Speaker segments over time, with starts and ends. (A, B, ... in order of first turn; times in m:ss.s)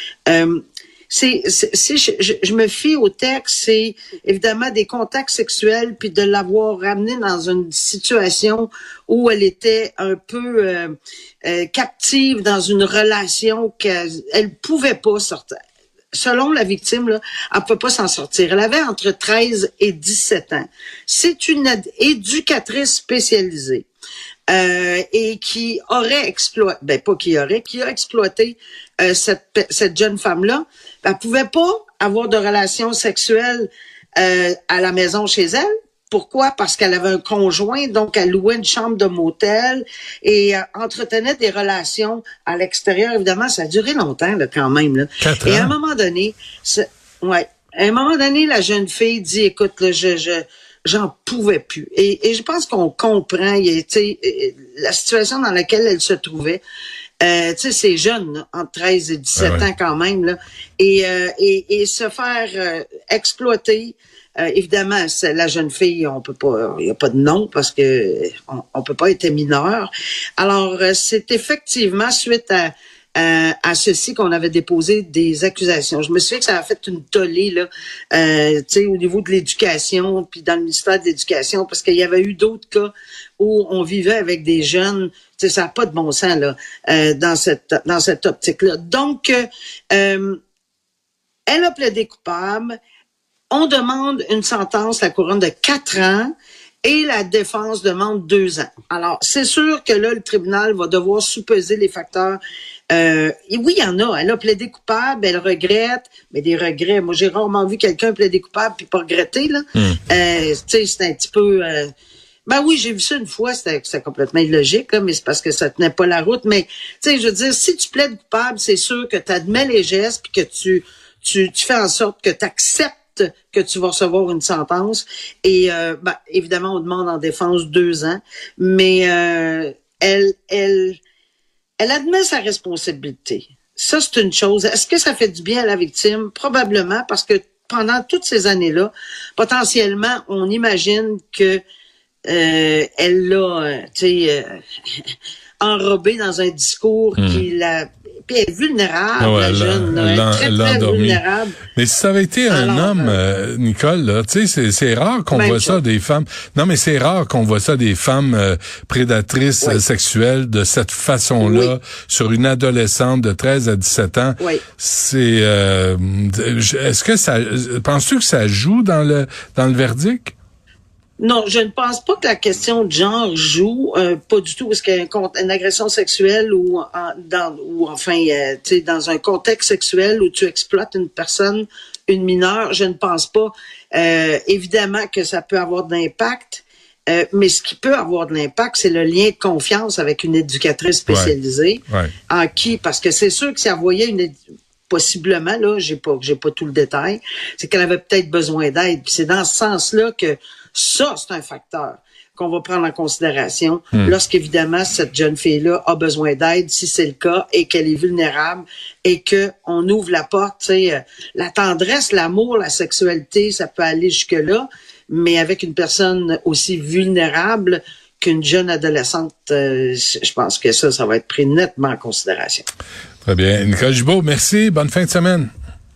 0:00.3-0:15.5 A
0:16.1-0:23.9 A
0:24.5-0:56.6 A
0:45.2-0:45.7 B
0:57.2-1:30.4 A
0:59.4-0:59.7 B
1:31.5-1:32.8 A
1:33.5-1:42.4 A
1:42.9-1:51.9 A
1:52.5-2:11.0 A
2:11.8-2:21.6 A
2:22.3-2:24.6 A
2:25.6-2:31.6 A
2:27.2-2:27.4 B
2:29.2-2:31.2 B
2:31.8-2:50.3 B
2:32.5-2:33.2 A
2:35.3-2:35.8 A
2:41.4-2:41.7 A
2:51.2-3:14.3 A
3:11.1-3:11.3 B
3:14.9-3:42.6 A
3:43.2-3:45.5 B